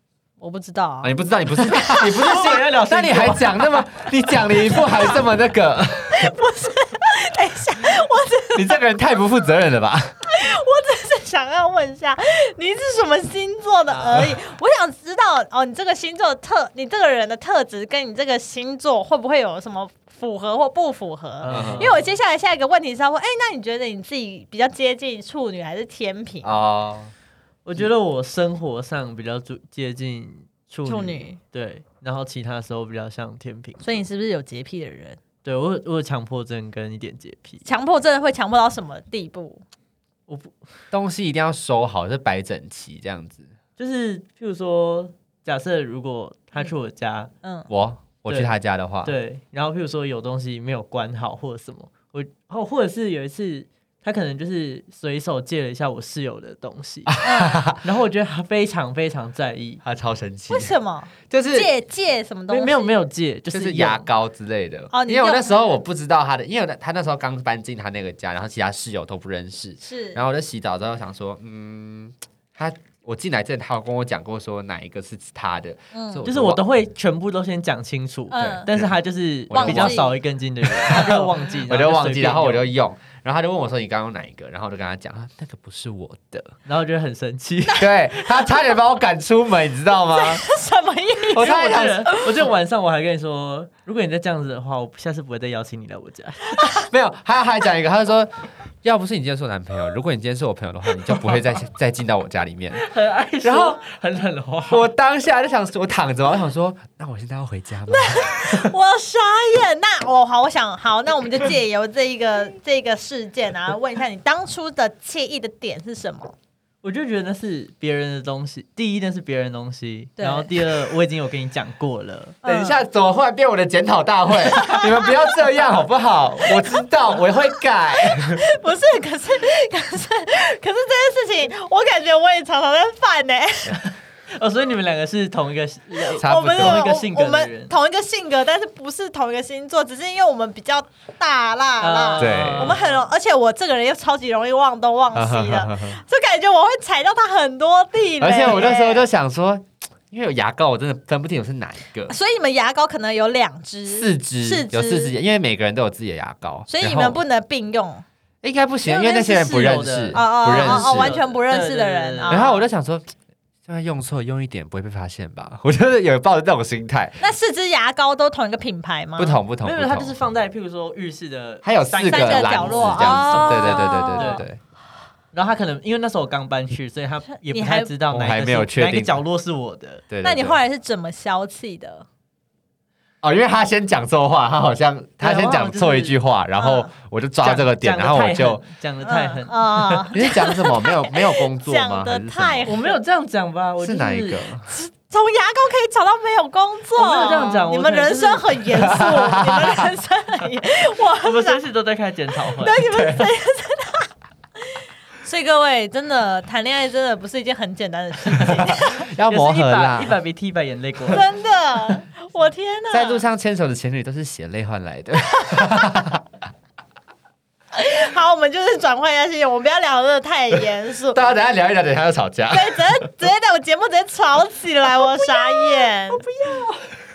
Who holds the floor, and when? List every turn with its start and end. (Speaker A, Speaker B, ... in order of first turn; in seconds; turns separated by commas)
Speaker A: 0.4-2.2, Speaker B: 1.0-6.3, Speaker C: 1.9-3.9, Speaker A: 6.1-8.8, Speaker B: 8.6-10.2, Speaker A: 10.3-26.5, Speaker C: 21.4-22.0, Speaker B: 21.5-21.9, Speaker B: 26.4-27.1, Speaker C: 27.6-34.0, Speaker A: 30.9-31.4, Speaker A: 33.8-35.2, Speaker C: 35.4-37.6, Speaker A: 37.6-39.6, Speaker C: 40.3-40.6, Speaker B: 40.9-43.5, Speaker C: 43.8-47.3, Speaker A: 47.4-47.7, Speaker B: 47.7-49.1, Speaker C: 48.3-48.5, Speaker C: 49.0-57.2, Speaker B: 57.1-57.8, Speaker A: 57.2-57.7, Speaker C: 57.8-59.8, Speaker B: 59.8-60.8, Speaker A: 60.5-62.9, Speaker B: 61.3-61.7, Speaker C: 62.5-64.1, Speaker B: 63.5-76.6, Speaker A: 64.9-65.6, Speaker A: 69.8-70.2, Speaker A: 75.9-76.3, Speaker C: 76.2-82.7, Speaker A: 78.3-78.7, Speaker B: 78.4-78.9, Speaker B: 79.5-80.1, Speaker A: 79.5-80.2, Speaker B: 80.6-86.6, Speaker A: 80.9-81.2, Speaker C: 86.7-87.9, Speaker B: 87.8-90.5, Speaker A: 90.2-92.5, Speaker B: 91.3-92.1, Speaker C: 91.3-96.6, Speaker A: 96.6-96.9, Speaker B: 96.7-98.3, Speaker B: 98.8-102.8, Speaker C: 102.8-104.9, Speaker B: 103.4-103.8, Speaker B: 104.7-108.7, Speaker A: 107.9-116.3, Speaker C: 116.8-122.4, Speaker A: 120.2-120.6, Speaker A: 122.4-122.8, Speaker B: 122.5-128.4, Speaker A: 124.5-125.3, Speaker A: 128.1-133.8, Speaker C: 133.7-137.7, Speaker A: 136.2-149.1, Speaker B: 136.2-136.9, Speaker C: 141.8-143.0, Speaker B: 142.2-142.8, Speaker B: 145.1-146.0, Speaker B: 148.2-152.2, Speaker A: 152.1-155.1, Speaker B: 153.9-157.2, Speaker A: 156.7-158.0, Speaker B: 158.4-161.2, Speaker A: 158.9-162.6, Speaker C: 159.3-162.5, Speaker B: 162.3-163.1, Speaker B: 163.7-167.2, Speaker A: 167.2-169.4, Speaker B: 169.2-170.2, Speaker C: 169.6-174.5, Speaker B: 171.6-174.6, Speaker A: 172.0-174.4, Speaker C: 175.3-180.0, Speaker A: 177.4-177.9, Speaker B: 178.1-179.2, Speaker B: 180.1-180.6, Speaker A: 180.2-182.1, Speaker B: 183.2-188.6, Speaker C: 185.2-186.2, Speaker A: 186.6-186.9, Speaker C: 187.4-190.1, Speaker A: 189.0-192.9, Speaker B: 190.1-192.7, Speaker C: 192.7-194.4, Speaker B: 193.8-194.7, Speaker A: 194.7-201.7, Speaker C: 197.0-198.7, Speaker B: 198.8-199.9, Speaker C: 201.2-202.8, Speaker A: 202.5-204.1, Speaker B: 202.8-203.3, Speaker A: 205.2-209.1, Speaker B: 208.4-210.2, Speaker C: 209.3-211.3, Speaker A: 211.1-213.2, Speaker B: 212.9-216.2, Speaker A: 215.4-216.1, Speaker A: 217.7-221.4, Speaker B: 221.1-222.8, Speaker A: 222.5-226.2, Speaker C: 225.4-226.9